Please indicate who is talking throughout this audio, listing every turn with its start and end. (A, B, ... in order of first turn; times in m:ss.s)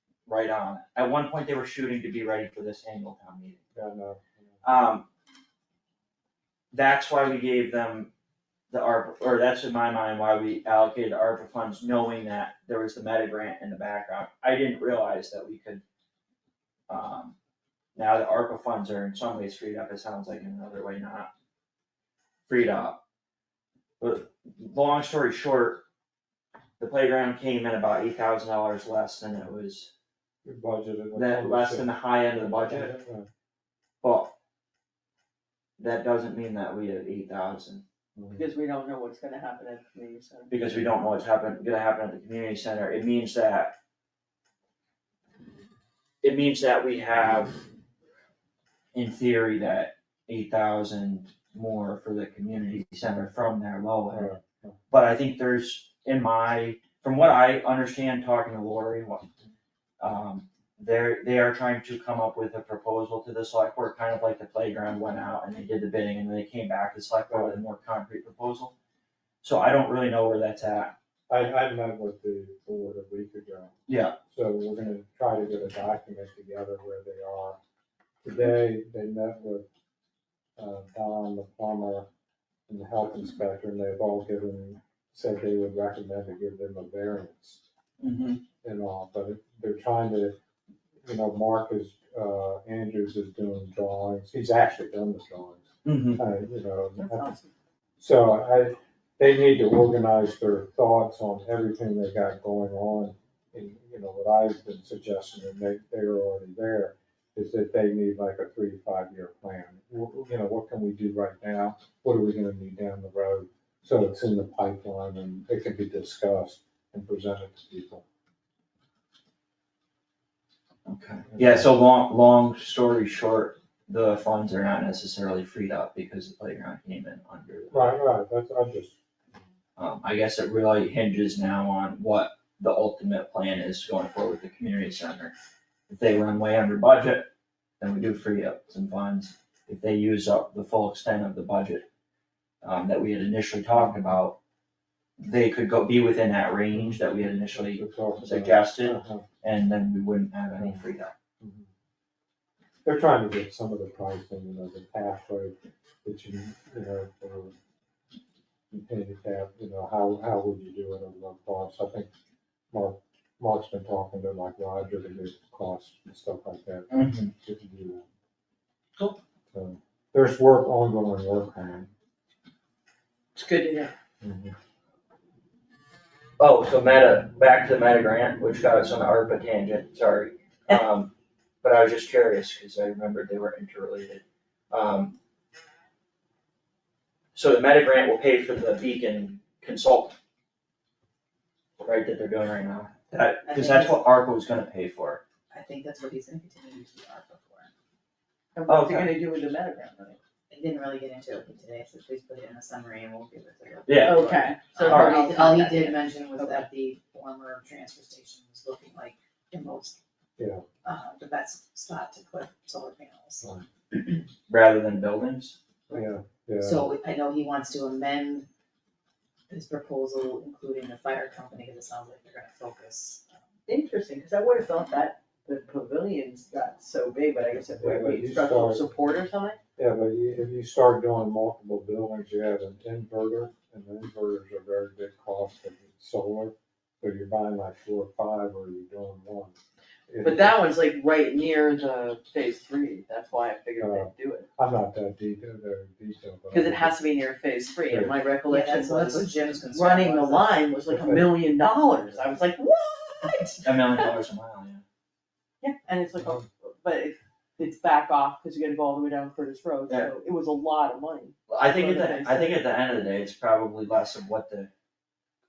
0:00.3-0:03.6 A
0:03.7-0:04.5 B
0:04.6-0:05.0 A
0:06.7-0:08.1 A
0:08.7-0:15.8 A
0:16.9-0:17.4 A
0:18.0-0:21.3 A
0:22.5-0:23.0 A
0:24.0-0:25.8 A
0:26.8-0:29.9 A
0:30.4-0:33.3 B
0:31.1-0:32.9 A
0:34.0-0:34.3 A
0:35.8-0:37.8 A
0:38.2-0:38.4 B
0:38.4-0:40.8 C
0:40.5-0:43.7 A
0:46.2-0:47.6 A
0:48.9-0:54.4 A
0:54.1-0:54.8 B
0:54.9-0:59.3 A
1:00.0-1:08.7 A
1:07.3-1:07.6 B
1:09.4-1:10.9 A
1:11.3-1:13.7 B
1:13.9-1:14.1 A
1:14.3-1:17.6 B
1:18.2-1:19.6 B
1:20.6-1:22.1 B
1:22.7-1:27.6 B
1:28.0-1:28.4 A
1:28.6-1:30.4 B
1:31.0-1:37.3 B
1:35.8-1:36.2 A
1:37.0-1:37.5 C
1:38.0-1:58.0 B
2:00.8-2:08.0 A
2:01.3-2:01.7 B
2:07.7-2:09.0 B
2:09.8-2:15.3 A
2:15.9-2:17.3 A
2:17.8-2:21.8 A
2:22.6-2:24.4 A
2:25.2-2:31.1 A
2:26.7-2:29.2 B
2:30.6-2:30.8 B
2:31.4-2:31.7 B
2:32.8-2:37.5 B
2:38.7-2:42.1 B
2:42.7-2:48.0 B
2:46.9-2:47.3 A
2:49.5-2:51.9 B
2:53.3-2:53.9 C
2:54.2-2:54.5 B
2:56.4-3:05.1 A
3:07.3-3:10.2 A
3:11.8-3:15.2 A
3:13.4-3:14.0 D
3:15.5-3:17.7 D
3:18.5-3:20.2 C
3:18.7-3:19.1 A
3:20.5-3:30.0 D
3:23.9-3:24.3 A
3:23.9-3:26.6 C
3:24.8-3:25.2 A
3:30.4-3:30.6 B
3:30.8-3:33.4 D
3:34.5-3:35.6 A
3:35.9-3:36.9 B
3:36.6-3:38.5 D
3:39.5-3:43.3 D
3:43.7-3:49.6 C
3:47.8-3:48.8 B
3:49.8-3:59.6 B
4:00.1-4:00.6 B
4:00.2-4:04.5 C
4:03.8-4:07.0 B
4:06.5-4:14.1 C
4:07.9-4:08.1 B
4:08.5-4:10.6 D
4:10.9-4:11.5 B
4:13.6-4:14.8 A
4:15.6-4:22.6 C
4:21.5-4:24.7 A